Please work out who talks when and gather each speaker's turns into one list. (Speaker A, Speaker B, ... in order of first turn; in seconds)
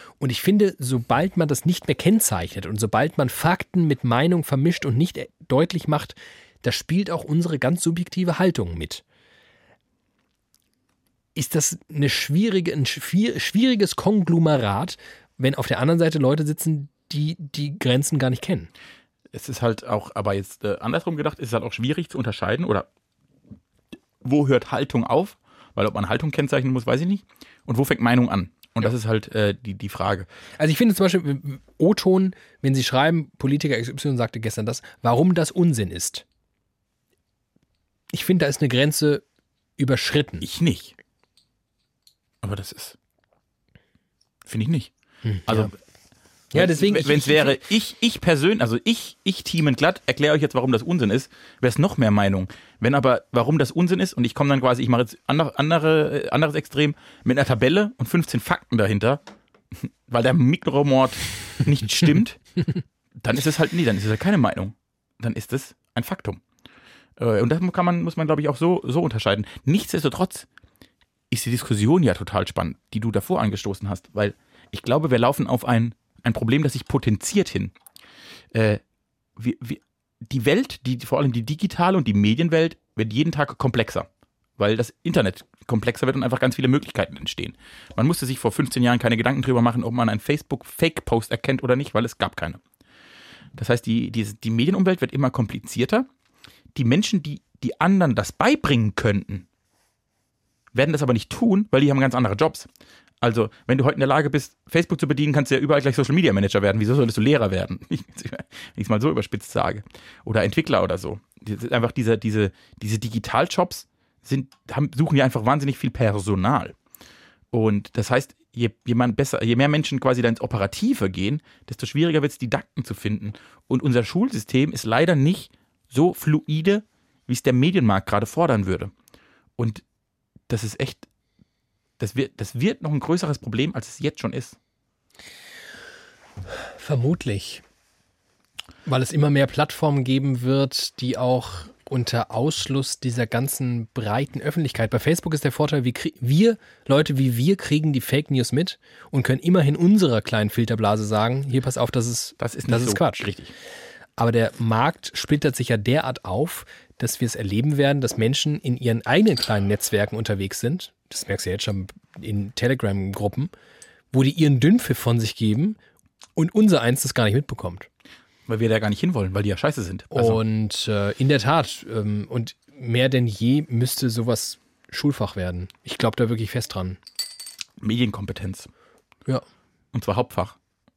Speaker A: 0.2-9.0, 11.3-18.7, 30.6-36.2, 38.1-39.2, 39.8-40.5, 45.2-45.7, 46.5-47.6, 136.8-137.6, 138.9-153.3, 154.2-163.5, 164.1-165.8, 166.4-167.9, 170.1-177.0
Speaker B: 19.3-22.9, 24.2-30.3, 40.4-41.0, 42.4-43.0, 44.5-44.9, 45.5-45.7, 46.5-59.2, 59.7-62.4, 63.2-66.4, 67.2-70.5, 71.3-77.7, 78.5-78.8, 79.4-92.6, 93.5-96.1, 96.7-99.5, 100.7-102.7, 103.2-116.7, 117.5-128.9, 129.6-129.8, 130.5-131.1, 132.0-134.6, 152.4-153.5, 168.5-170.4, 177.8-178.7, 179.9-180.6